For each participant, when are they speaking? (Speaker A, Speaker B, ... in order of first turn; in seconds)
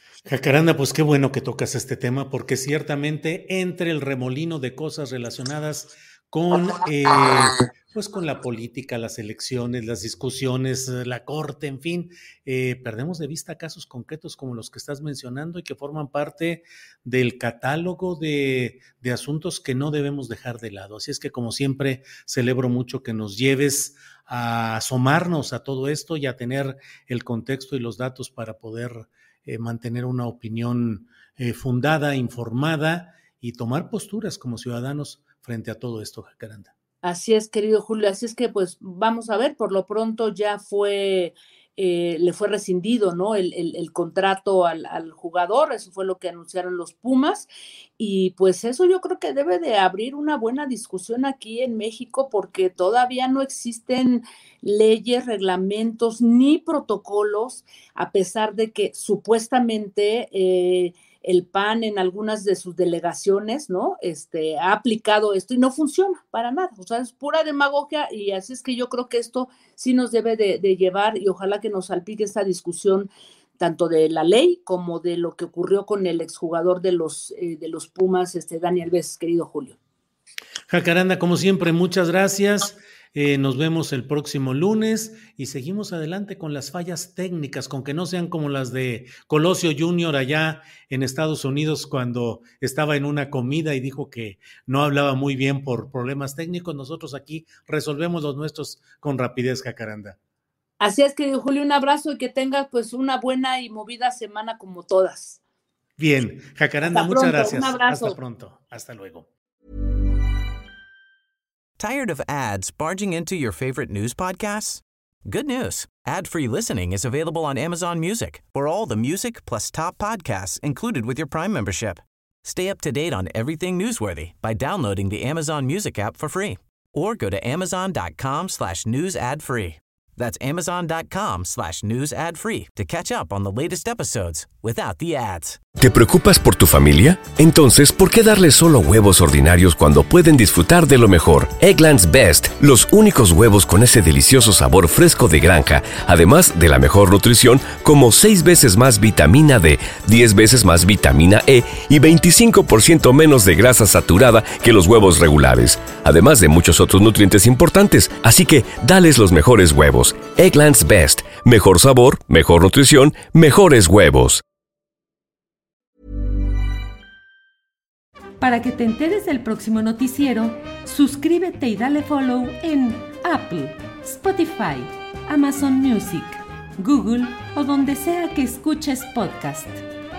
Speaker A: 0.3-36.7, 80.7-100.2, 106.0-109.3
Speaker B: 37.0-79.8, 100.8-105.4, 106.8-108.2
Speaker C: 111.8-135.6
Speaker D: 135.8-164.4
Speaker E: 168.4-179.8